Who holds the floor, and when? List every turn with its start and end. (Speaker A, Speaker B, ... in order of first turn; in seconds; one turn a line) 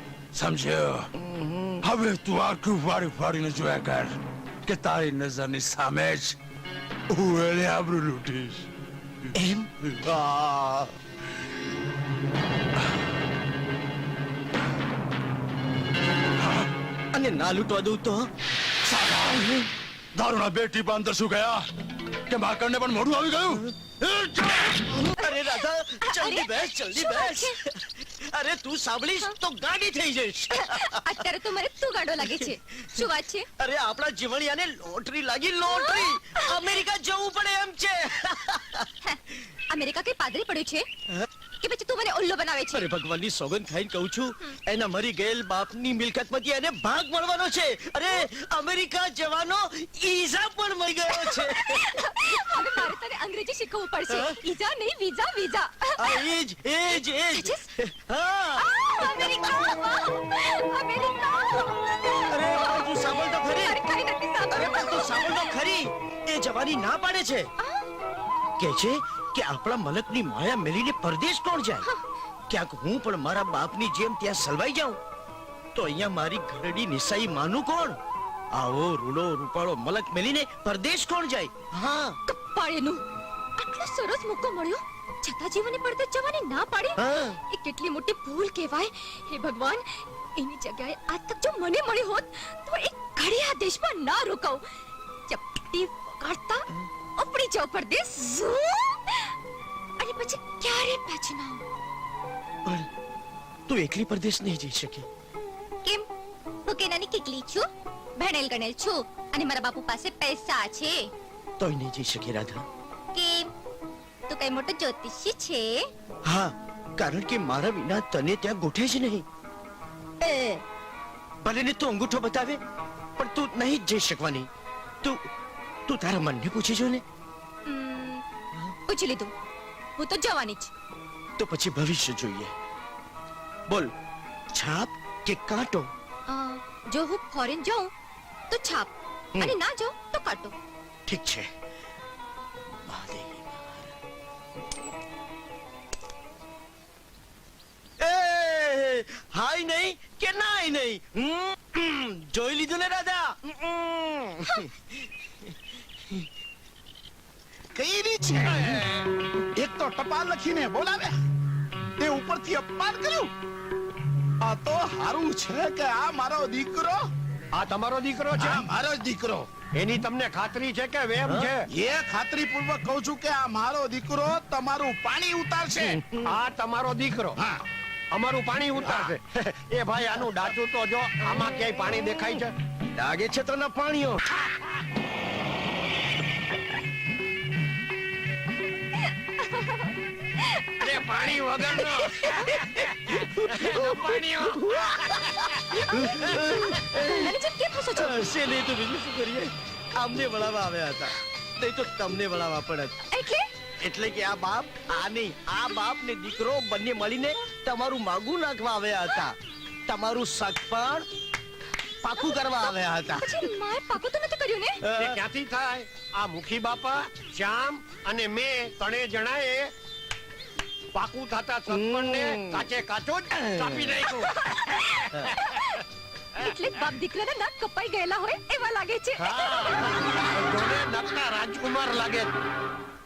Speaker A: 0.3-1.1
Speaker B: 1.2-1.8
Speaker A: 1.8-6.4
Speaker A: 7.1-8.7
Speaker B: 9.3-10.9
Speaker A: 16.4-16.7
Speaker B: 17.1-18.3
Speaker A: 18.9-19.6
Speaker A: 20.1-21.7
Speaker A: 22.3-23.7
Speaker B: 24.2-31.1
Speaker C: 25.1-27.6
Speaker C: 30.5-33.5
Speaker B: 32.2-33.1
Speaker B: 33.6-38.9
Speaker C: 35.6-36.6
Speaker C: 39.0-40.9
Speaker C: 41.6-42.9
Speaker B: 42.7-52.8
Speaker C: 51.1-56.3
Speaker B: 54.1-54.4
Speaker B: 56.0-59.8
Speaker C: 56.9-57.7
Speaker C: 58.6-65.5
Speaker B: 62.3-63.8
Speaker B: 64.5-67.5
Speaker B: 68.6-71.8
Speaker B: 72.5-75.0
Speaker B: 75.7-78.0
Speaker B: 78.5-82.2
Speaker C: 82.3-83.0
Speaker C: 83.6-89.8
Speaker B: 87.0-87.4
Speaker C: 90.3-94.6
Speaker C: 95.3-96.7
Speaker C: 97.2-99.3
Speaker C: 100.0-101.6
Speaker B: 103.7-105.1
Speaker C: 106.7-107.7
Speaker C: 108.2-111.1
Speaker B: 111.6-112.6
Speaker C: 113.1-113.5
Speaker C: 114.3-115.8
Speaker B: 116.2-119.2
Speaker C: 120.2-120.6
Speaker B: 121.4-122.6
Speaker B: 123.2-124.5
Speaker B: 125.9-127.0
Speaker C: 127.7-128.2
Speaker C: 128.9-129.3
Speaker C: 130.0-130.7
Speaker B: 131.4-132.5
Speaker B: 134.5-135.9
Speaker C: 136.3-137.9
Speaker C: 138.5-140.5
Speaker B: 141.1-141.5
Speaker B: 142.8-143.9
Speaker B: 148.0-154.8
Speaker D: 157.7-158.8
Speaker D: 159.6-161.1
Speaker D: 162.0-163.3
Speaker D: 164.4-167.1
Speaker E: 167.5-168.6
Speaker D: 168.4-169.5
Speaker E: 169.7-171.7
Speaker D: 171.5-176.0
Speaker B: 175.8-176.3
Speaker E: 176.2-177.4
Speaker E: 178.1-182.5
Speaker B: 182.9-184.3
Speaker C: 189.4-190.6
Speaker E: 190.8-194.9
Speaker B: 192.2-197.3
Speaker C: 196.2-198.3
Speaker B: 197.9-203.0
Speaker C: 203.1-203.4
Speaker B: 203.8-209.3
Speaker B: 209.9-211.1
Speaker B: 212.0-213.5
Speaker C: 212.2-214.8
Speaker B: 214.8-215.2
Speaker E: 214.9-219.7
Speaker E: 220.9-224.5
Speaker B: 221.7-222.6
Speaker B: 223.5-223.9
Speaker C: 224.4-225.8
Speaker C: 226.3-229.9
Speaker E: 229.2-232.3